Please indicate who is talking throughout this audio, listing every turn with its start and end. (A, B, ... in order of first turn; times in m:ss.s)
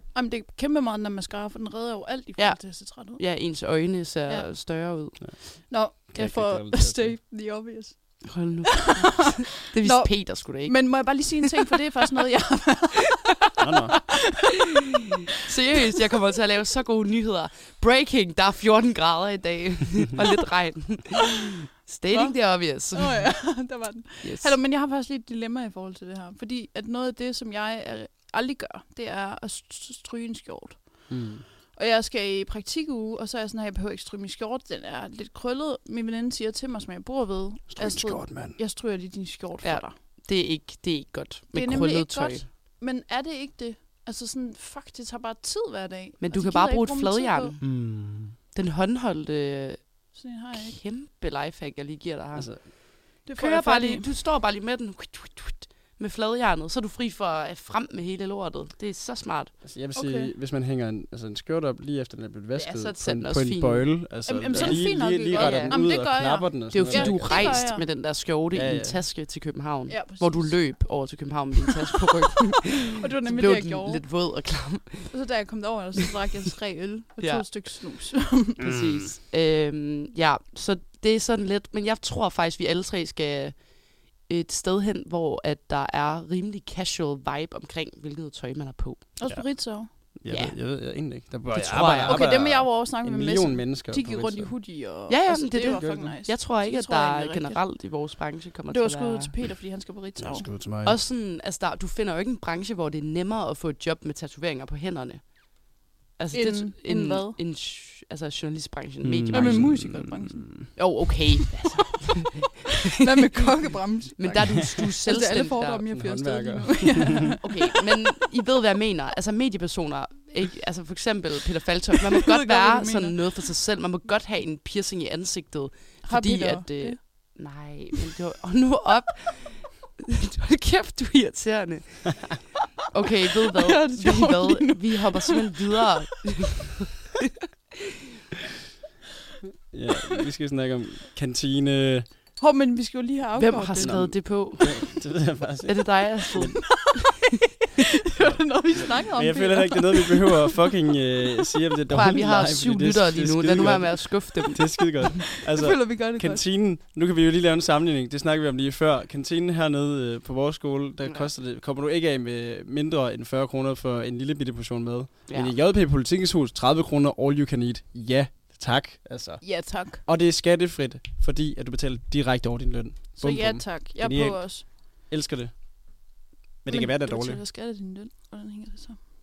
0:00.1-0:03.2 A
0:02.4-0:05.2 B
0:05.2-0:07.2 C
0:05.2-0:09.0 A
0:08.2-0:11.3 B
0:09.8-0:13.1 A
0:13.6-0:14.0 C
0:15.4-0:23.7 B
0:22.1-0:31.2 A
0:24.2-0:24.6 B
0:31.1-0:31.4 C
0:31.7-0:39.9 A
0:37.7-0:38.6 C
0:39.6-0:42.5 B
0:41.5-0:47.5 A
0:46.2-0:47.9 B
0:47.6-0:48.4 C
0:48.5-0:59.5 B
0:50.1-0:50.8 A
0:52.3-0:52.7 C
0:53.2-0:54.1 A
0:59.6-1:07.7 C
0:59.9-1:00.3 A
1:02.5-1:04.0 B
1:04.2-1:07.8 A
1:04.5-1:05.8 B
1:06.7-1:15.2 B
1:08.5-1:09.0 C
1:09.9-1:10.8 A
1:13.0-1:14.0 A
1:15.1-1:18.6 A
1:17.2-1:17.6 B
1:18.6-1:29.1 B
1:18.6-1:19.1 C
1:29.2-1:29.9 A
1:29.2-1:34.6 C
1:30.3-1:30.6 B
1:31.5-1:32.3 B
1:31.9-1:37.7 A
1:35.1-1:39.3 B
1:35.6-1:36.2 C
1:38.7-1:40.5 A
1:40.2-1:41.0 C
1:40.8-1:49.8 B
1:46.3-1:47.4 A
1:49.0-1:50.8 C
1:49.3-1:50.8 A
1:50.7-1:55.8 B
1:52.9-1:57.6 A
1:55.9-1:57.3 C
1:57.4-2:16.8 B
2:02.3-2:03.3 A
2:06.0-2:07.4 A
2:13.6-2:15.4 A
2:19.7-2:22.2 C
2:22.4-2:24.2 A
2:23.4-2:27.0 B
2:23.8-2:26.6 C
2:26.7-2:27.1 A
2:28.1-2:30.6 A
2:28.2-2:55.6 C
2:31.9-2:34.8 B
2:35.4-2:36.4 A
2:41.0-2:41.3 B
2:45.3-2:45.6 B
2:49.4-2:50.0 A
2:53.2-2:54.6 A
2:56.6-2:57.4 C
2:56.7-2:59.0 A